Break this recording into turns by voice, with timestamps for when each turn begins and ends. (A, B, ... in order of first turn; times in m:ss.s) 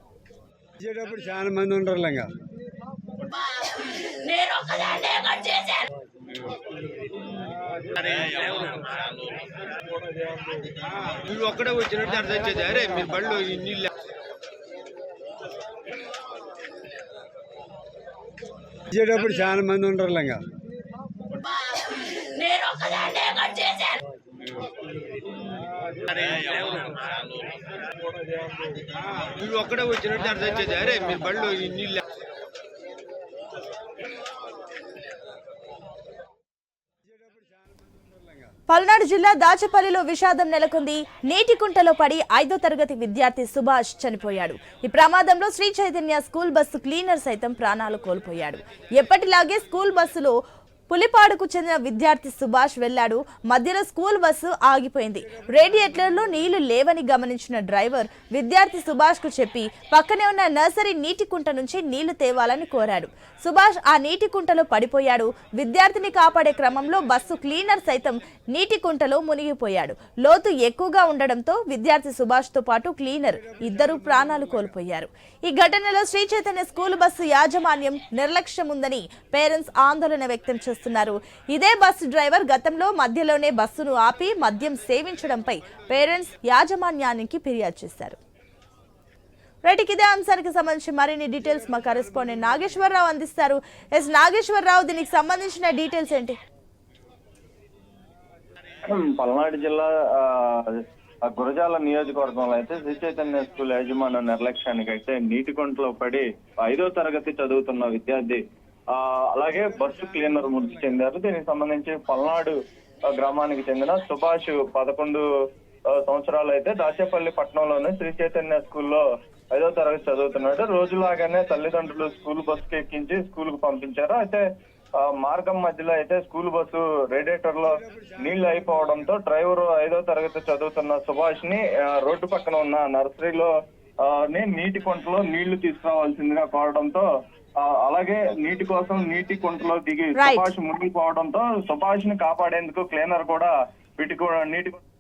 0:00.8-0:02.3 A
0:04.2-0:05.8 B
0:08.0-0:09.0 C
0:11.2-0:13.9 C
0:18.9-0:20.4 A
0:22.4-0:24.0 B
0:26.1-0:27.2 C
0:29.2-0:32.0 C
0:38.7-0:50.4 D
0:50.9-1:28.2 D
1:29.6-1:36.4 D
1:38.8-1:52.6 E
1:50.2-1:50.5 A
1:53.1-1:55.2 E
1:55.9-2:04.4 E
2:05.0-2:17.1 E
2:17.6-2:24.8 E
2:20.2-2:20.5 D